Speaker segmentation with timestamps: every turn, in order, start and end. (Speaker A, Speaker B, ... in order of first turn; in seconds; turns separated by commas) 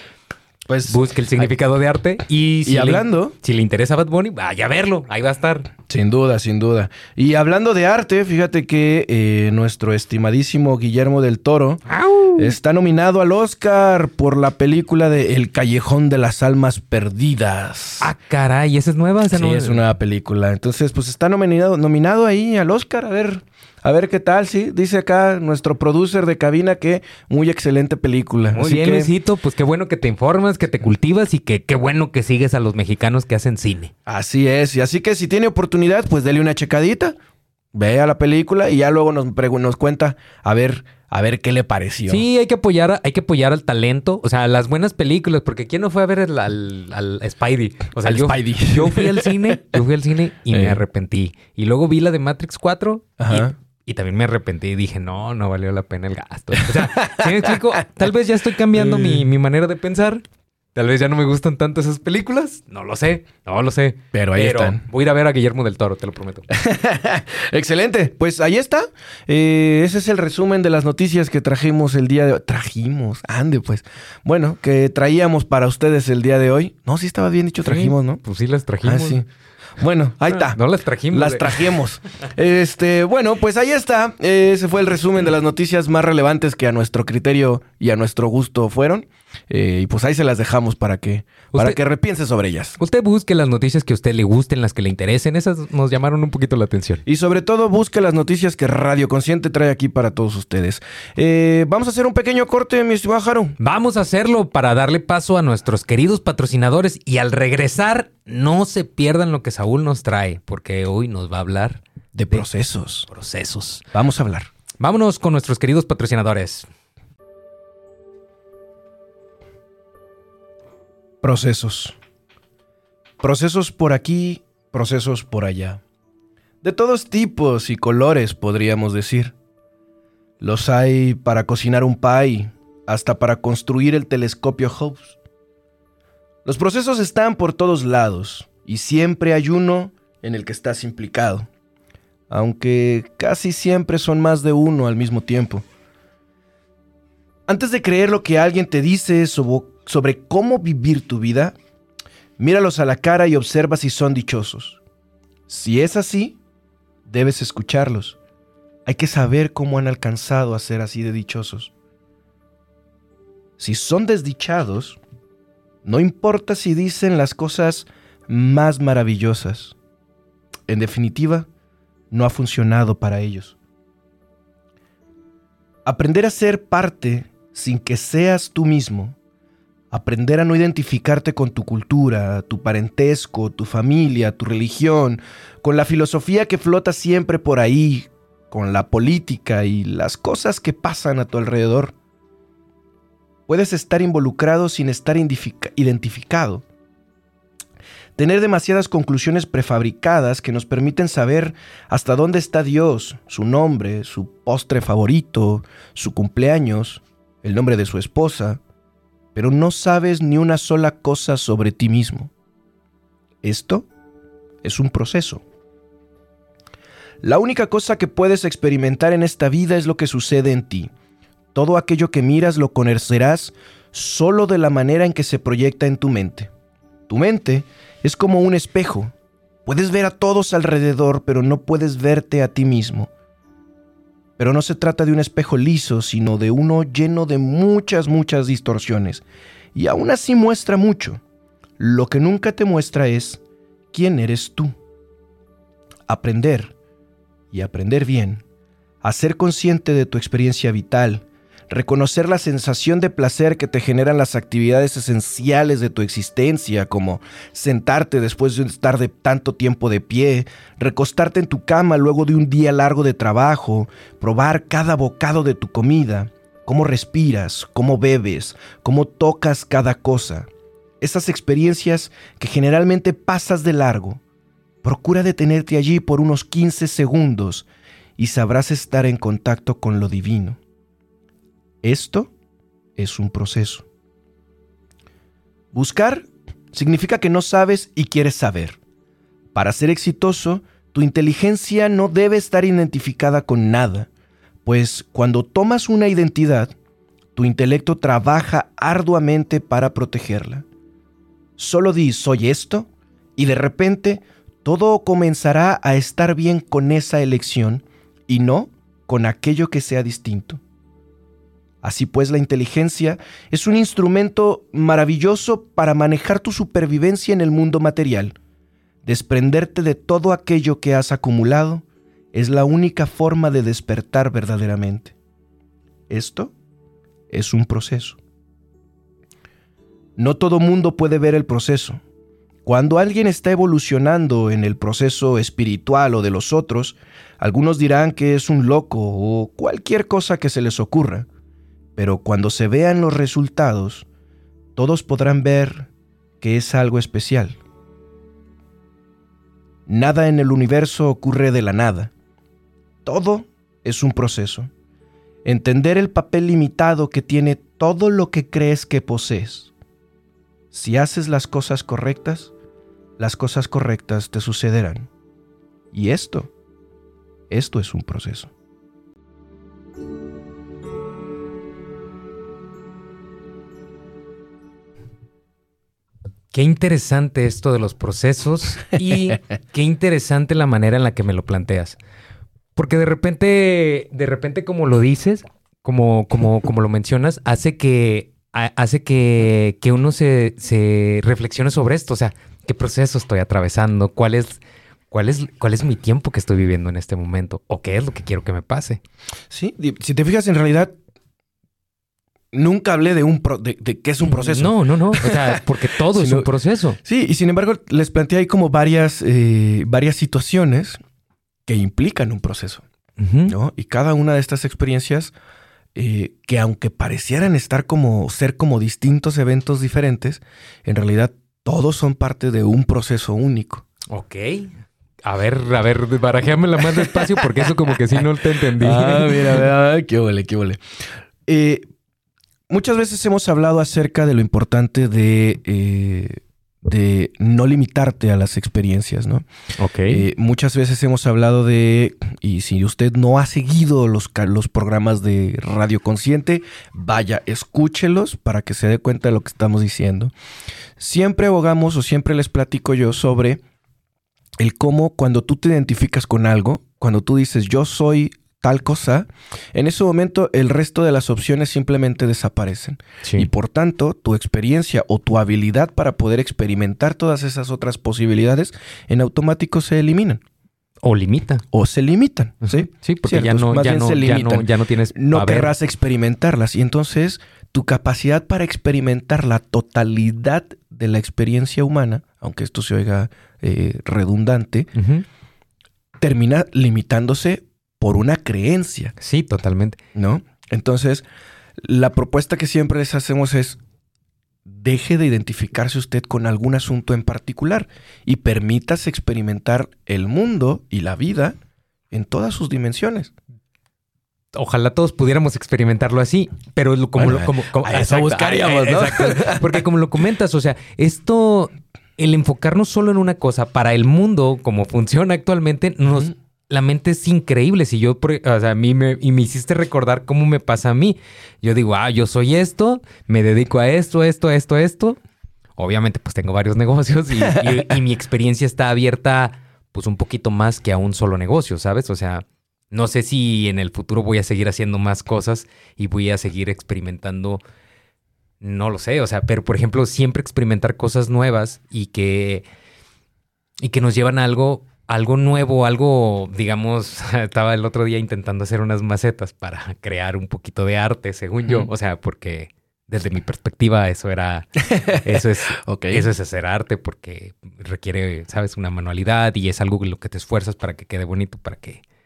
Speaker A: 0.7-1.5, Speaker B: 0.9-5.7, Speaker A: 2.6-3.3, Speaker A: 5.9-11.8, Speaker B: 11.9-12.5, Speaker A: 12.4-18.1, Speaker B: 18.0-19.8, Speaker A: 19.3-29.1, Speaker B: 28.5-33.9, Speaker A: 34.1-37.2, Speaker A: 37.7-42.2, Speaker B: 42.1-60.2, Speaker A: 48.0-49.6, Speaker A: 50.5-50.8, Speaker A: 53.2-53.5, Speaker A: 56.6-57.6, Speaker A: 58.7-59.2, Speaker B: 60.8-66.5, Speaker A: 64.1-64.8, Speaker A: 66.5-78.2, Speaker B: 77.6-79.2, Speaker A: 78.8-79.2, Speaker A: 79.8-80.6, Speaker B: 80.5-81.7, Speaker A: 81.1-92.8, Speaker B: 91.5-91.8, Speaker B: 92.8-97.0, Speaker A: 97.1-103.6, Speaker B: 103.6-112.5, Speaker A: 112.2-113.1, Speaker B: 113.1-113.8, Speaker A: 113.9-114.5, Speaker B: 114.8-116.7, Speaker A: 121.2-122.0, Speaker A: 123.2-125.8, Speaker A: 126.6-129.3, Speaker A: 130.4-135.2, Speaker A: 136.4-141.5, Speaker A: 142.3-145.7, Speaker A: 147.5-151.6, Speaker A: 152.4-154.8, Speaker A: 155.5-156.4, Speaker A: 157.1-158.2, Speaker A: 158.9-161.7, Speaker A: 163.6-165.0, Speaker A: 165.8-169.8, Speaker A: 170.7-171.5, Speaker A: 172.1-173.6, Speaker A: 175.8-179.2, Speaker A: 179.9-191.9, Speaker A: 193.5-196.6, Speaker A: 198.2-208.6, Speaker A: 209.3-212.3, Speaker A: 213.4-213.9, Speaker A: 214.6-215.4, Speaker A: 217.2-220.9, Speaker A: 221.5-226.5, Speaker A: 227.1-229.1, Speaker A: 229.7-233.1, Speaker A: 234.4-239.2, Speaker A: 239.8-241.2, Speaker A: 241.8-243.4, Speaker A: 243.9-244.8, Speaker A: 246.1-246.7, Speaker A: 247.5-248.4, Speaker A: 249.0-270.5, Speaker A: 271.0-274.2, Speaker A: 274.8-277.7, Speaker A: 278.2-280.6, Speaker A: 281.8-282.3, Speaker A: 283.0-283.9, Speaker A: 285.7-288.8, Speaker A: 289.5-294.1, Speaker A: 294.6-296.7, Speaker A: 297.4-300.7, Speaker A: 301.6-310.6, Speaker A: 311.8-318.4, Speaker A: 319.1-325.2, Speaker A: 326.1-326.5, Speaker A: 327.3-328.2, Speaker A: 330.2-332.0, Speaker A: 332.6-341.3, Speaker A: 342.0-344.1, Speaker A: 344.8-345.9, Speaker A: 346.4-347.6, Speaker A: 349.9-352.1, Speaker A: 353.1-354.7, Speaker A: 355.4-359.7, Speaker A: 360.7-362.5, Speaker A: 363.2-365.1, Speaker A: 365.9-366.5, Speaker A: 367.5-368.5, Speaker B: 376.5-382.0, Speaker B: 382.8-399.0, Speaker A: 399.5-400.9, Speaker A: 402.5-405.6, Speaker B: 404.2-407.0, Speaker A: 406.2-406.5, Speaker A: 407.0-411.0, Speaker A: 411.7-412.8, Speaker B: 413.2-413.5, Speaker A: 413.5-415.3, Speaker A: 415.9-423.9, Speaker B: 424.1-424.7, Speaker B: 425.2-429.6, Speaker A: 428.8-430.8, Speaker A: 431.5-431.9, Speaker A: 432.7-439.5, Speaker B: 439.8-440.3, Speaker A: 440.1-450.3, Speaker A: 451.0-453.6, Speaker A: 454.6-470.4, Speaker B: 463.2-463.5, Speaker B: 471.0-471.6, Speaker A: 471.7-484.9, Speaker B: 472.6-475.7, Speaker B: 484.9-485.2, Speaker A: 486.2-489.1, Speaker B: 489.2-490.0, Speaker A: 490.1-491.2, Speaker A: 491.8-493.8, Speaker A: 494.7-501.6, Speaker A: 502.1-503.3, Speaker B: 504.5-525.2, Speaker A: 507.2-509.8, Speaker B: 525.8-537.6, Speaker B: 538.6-542.6, Speaker B: 543.8-562.0, Speaker A: 551.6-551.9, Speaker A: 554.9-555.2, Speaker A: 555.7-556.3